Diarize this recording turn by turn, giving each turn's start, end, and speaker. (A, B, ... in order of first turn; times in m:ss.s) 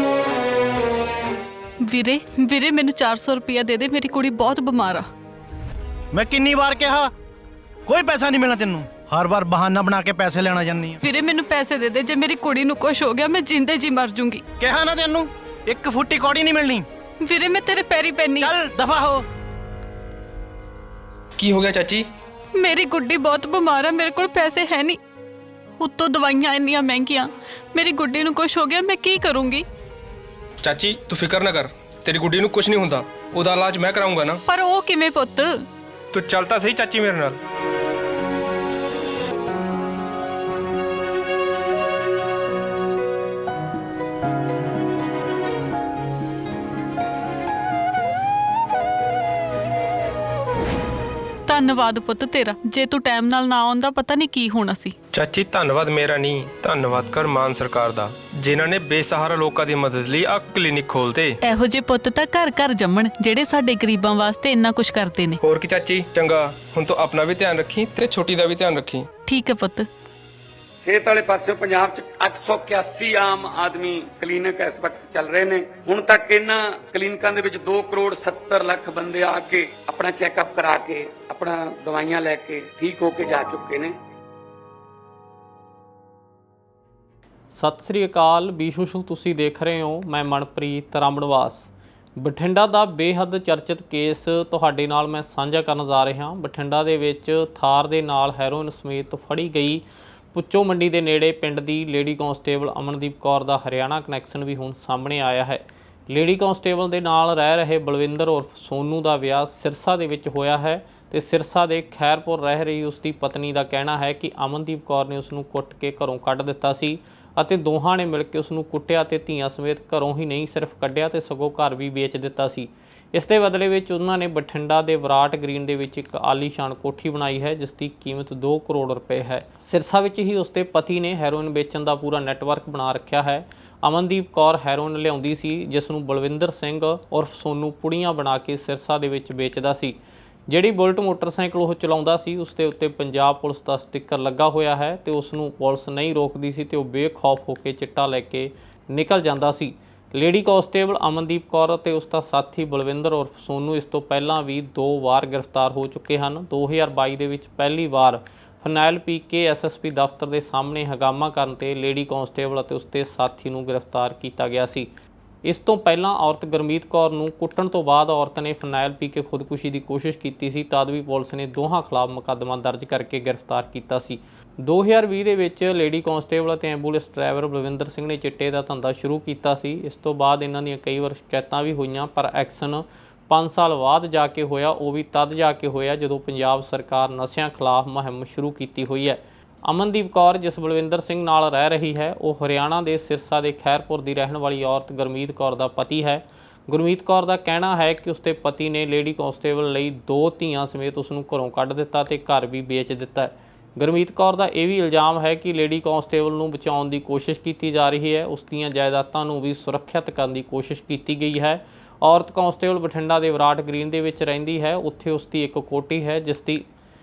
0:01.8-0:05.1 A
0:06.1-0:07.1 B
0:07.8-0:11.0 B
0:11.0-0:14.4 A
0:14.6-0:16.8 B
0:17.2-0:18.5 A
0:18.4-0:19.2 B
0:21.4-0:22.1 C
0:22.5-0:25.0 A
0:25.8-0:29.6 A
0:30.6-0:34.4 C
0:34.5-0:35.6 A
0:36.1-0:37.4 C
0:51.5-0:54.9 A
0:55.1-1:01.4 C
1:01.4-1:05.4 A
1:05.4-1:09.1 C
1:09.3-1:09.9 A
1:10.8-1:23.9 D
1:27.5-2:20.0 E
2:20.5-2:44.9 E
2:45.4-3:36.6 E